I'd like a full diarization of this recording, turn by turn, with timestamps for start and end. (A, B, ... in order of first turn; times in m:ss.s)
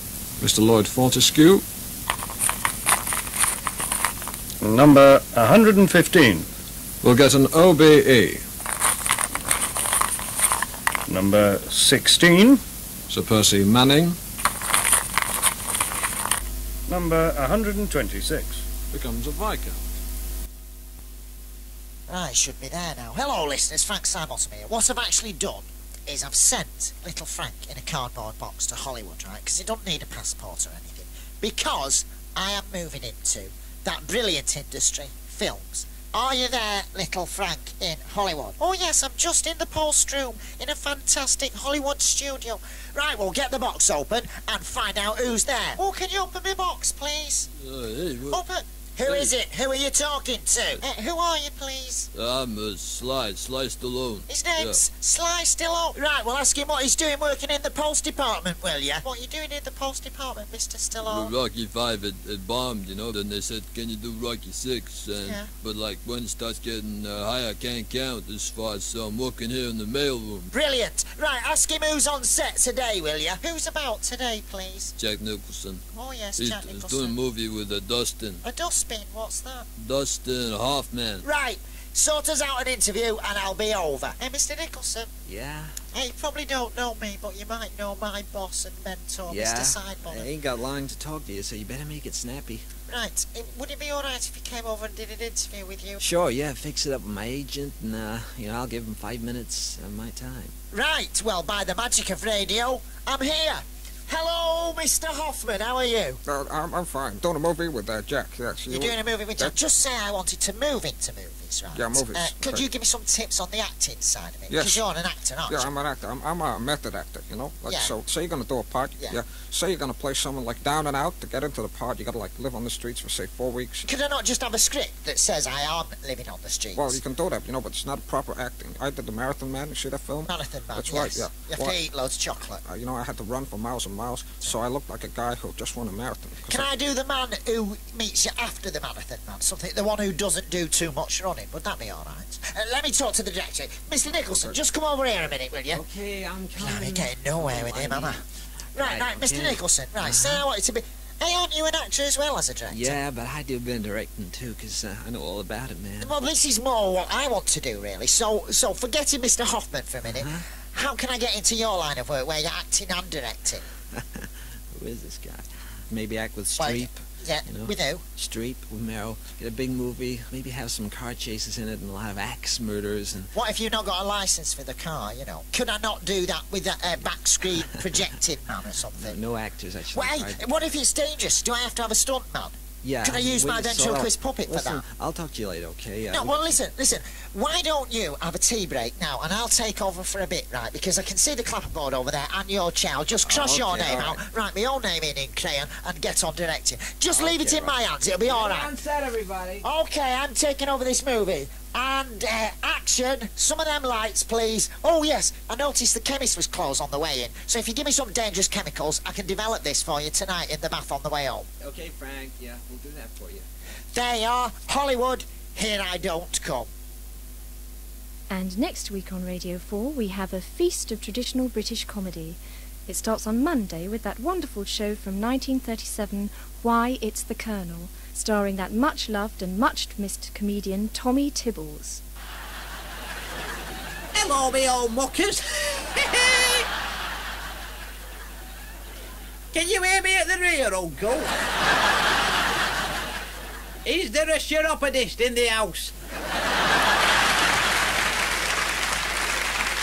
0:00.4-0:01.6 A
0:04.6-0:06.5 B
0:07.0-0:08.3 A
0:11.1-0:12.6 B
0:13.1-0:14.1 A
0:13.2-0:13.5 C
0:16.9-0:18.6 B
0:19.0-0:19.5 A
0:22.1-0:47.5 D
0:47.6-0:48.4 E
0:48.3-0:52.1 D
0:49.0-0:49.4 E
0:52.1-0:54.8 E
0:54.3-1:01.3 D
1:01.0-1:10.5 E
1:05.2-1:05.5 D
1:10.5-1:14.9 D
1:15.0-1:15.8 E
1:15.9-1:17.2 D
1:16.4-1:18.4 E
1:18.4-1:19.7 D
1:19.8-1:21.2 E
1:21.2-1:25.1 D
1:25.3-1:25.8 F
1:25.9-1:30.3 D
1:29.3-1:32.7 F
1:32.9-1:36.0 D
1:36.0-1:40.5 F
1:40.7-1:46.2 D
1:46.2-1:49.6 C
1:48.7-1:55.7 D
1:51.7-1:52.7 C
1:54.5-1:54.8 C
1:55.5-2:03.9 C
1:57.7-1:58.0 D
2:03.9-2:07.0 D
2:06.8-2:11.8 C
2:10.3-2:12.6 D
2:12.6-2:16.7 C
2:16.5-2:25.8 D
2:25.7-2:28.2 F
2:26.6-2:28.2 D
2:28.8-2:30.5 F
2:28.8-2:33.0 D
2:32.7-2:36.2 F
2:36.0-2:43.6 D
2:40.1-2:40.4 F
2:44.0-2:53.3 F
2:46.6-2:48.0 D
2:53.3-2:59.2 D
2:59.0-3:00.4 F
2:59.9-3:04.8 D
3:02.8-3:06.6 F
3:06.1-3:18.7 D
3:13.2-3:14.2 F
3:17.1-3:19.7 F
3:19.6-3:31.5 D
3:31.6-3:33.4 F
3:33.9-3:36.7 D
3:38.3-3:52.0 G
3:54.1-3:56.7 H
3:59.5-4:01.3 H
4:03.8-4:05.9 H